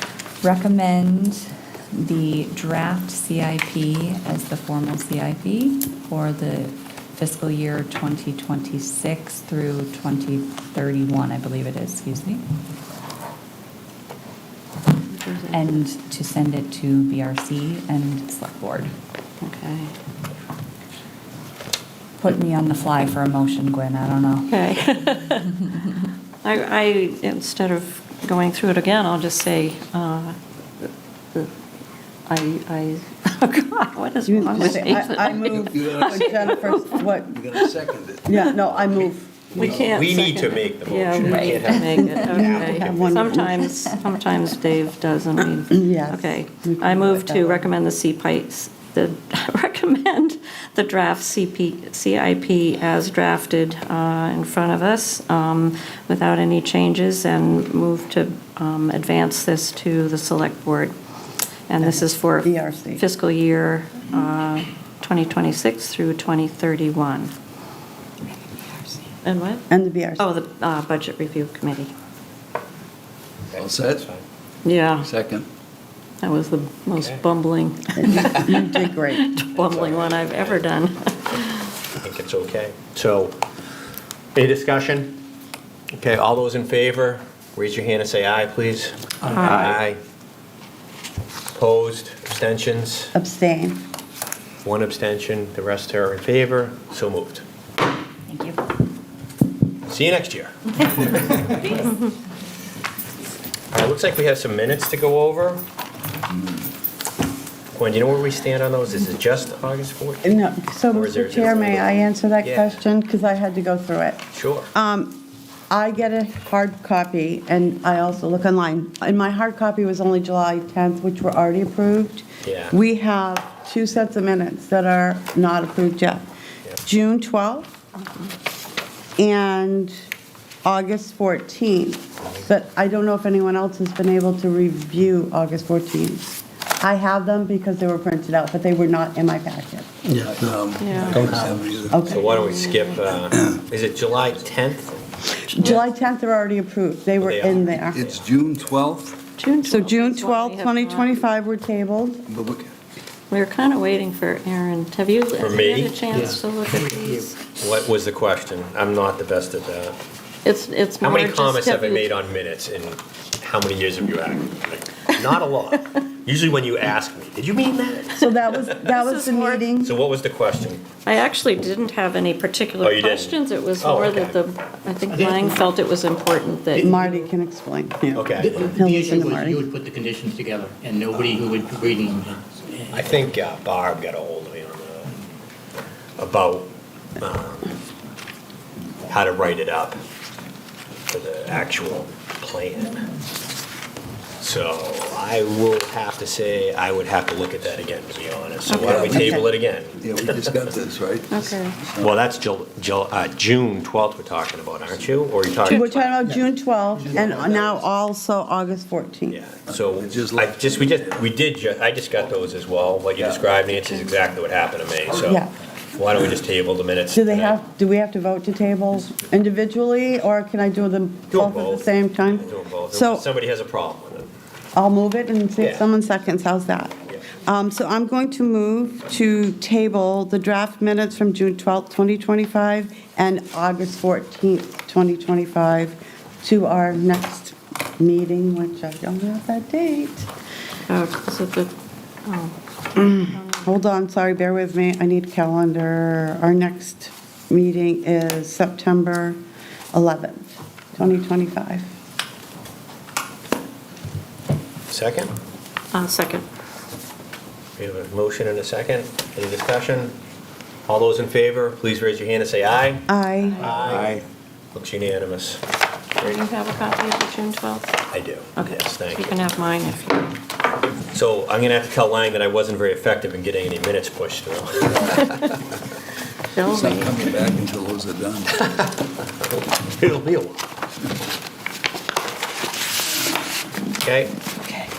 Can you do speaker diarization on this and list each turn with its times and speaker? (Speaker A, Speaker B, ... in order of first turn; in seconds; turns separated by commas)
Speaker A: 0.4-12.4, Speaker B: 15.1-15.6, Speaker A: 15.5-18.9, Speaker B: 19.4-19.9, Speaker A: 22.2-24.5, Speaker B: 24.4-25.6, Speaker B: 26.4-31.5, Speaker B: 32.3-37.7, Speaker C: 34.2-37.4, Speaker D: 35.4-36.7, Speaker D: 37.3-40.0, Speaker C: 38.3-40.0, Speaker B: 39.6-60.9, Speaker E: 39.8-43.4, Speaker C: 42.0-43.7, Speaker C: 45.7-47.7, Speaker B: 61.7-67.3, Speaker C: 61.8-63.0, Speaker B: 69.2-69.7, Speaker C: 69.7-70.2, Speaker B: 70.2-71.9, Speaker E: 73.5-74.2, Speaker D: 73.5-74.1, Speaker B: 74.6-75.1, Speaker D: 75.0-75.5, Speaker B: 76.2-81.7, Speaker E: 77.0-77.2, Speaker C: 78.0-79.3, Speaker E: 78.1-78.6, Speaker E: 79.5-80.7, Speaker E: 82.0-83.3, Speaker E: 84.3-85.2, Speaker E: 86.0-90.0, Speaker B: 89.3-89.7, Speaker E: 91.5-93.1, Speaker C: 93.1-93.8, Speaker E: 94.6-97.4, Speaker A: 98.3-98.6, Speaker E: 99.9-101.7, Speaker B: 101.7-102.1, Speaker E: 103.7-105.6, Speaker E: 107.7-110.3, Speaker C: 110.2-115.2, Speaker E: 110.9-112.8, Speaker E: 114.3-114.7, Speaker C: 115.7-126.2, Speaker E: 122.4-122.7, Speaker C: 126.8-127.7, Speaker C: 129.2-129.9, Speaker C: 130.6-139.9, Speaker D: 140.2-142.0, Speaker B: 140.8-141.2, Speaker E: 141.0-141.4, Speaker C: 141.9-142.3, Speaker E: 142.0-145.9, Speaker B: 142.1-143.1, Speaker C: 145.5-148.0, Speaker E: 147.2-148.2, Speaker D: 147.9-149.2, Speaker B: 149.4-151.2, Speaker C: 149.6-152.2, Speaker D: 152.3-152.7, Speaker B: 153.3-157.4, Speaker E: 155.4-156.0, Speaker F: 156.1-157.2, Speaker E: 157.5-159.9, Speaker B: 160.4-162.1, Speaker E: 161.0-168.9, Speaker C: 168.2-169.9, Speaker B: 169.0-169.7, Speaker E: 169.8-170.8, Speaker B: 171.0-177.0, Speaker E: 172.8-174.4, Speaker F: 175.1-175.5, Speaker F: 176.7-177.2, Speaker C: 176.8-179.6, Speaker E: 178.2-178.7, Speaker F: 178.4-183.1, Speaker E: 182.9-185.2, Speaker E: 186.2-187.7, Speaker E: 189.1-190.0, Speaker E: 191.1-193.0, Speaker E: 194.4-200.6, Speaker D: 198.8-202.2, Speaker C: 199.0-199.4, Speaker B: 201.3-201.8, Speaker E: 202.0-206.1, Speaker C: 205.6-209.4, Speaker B: 205.7-206.1, Speaker D: 207.4-207.8, Speaker E: 209.3-215.4, Speaker D: 209.7-211.2, Speaker D: 213.2-213.4, Speaker E: 215.9-217.6, Speaker C: 217.1-223.2, Speaker E: 221.3-224.3, Speaker C: 224.7-240.3, Speaker E: 225.6-225.8, Speaker B: 240.9-241.7, Speaker B: 242.2-243.8, Speaker C: 243.0-249.4, Speaker C: 249.9-251.8, Speaker E: 254.9-255.3, Speaker B: 255.9-256.4, Speaker E: 257.8-260.1, Speaker E: 260.9-263.1, Speaker C: 263.1-263.8, Speaker E: 263.6-264.2, Speaker E: 264.7-265.6, Speaker B: 266.2-267.9, Speaker E: 268.1-269.4, Speaker B: 268.6-270.3, Speaker E: 271.1-275.5, Speaker B: 276.5-277.2, Speaker D: 276.7-278.6, Speaker E: 279.7-280.6, Speaker E: 284.0-284.3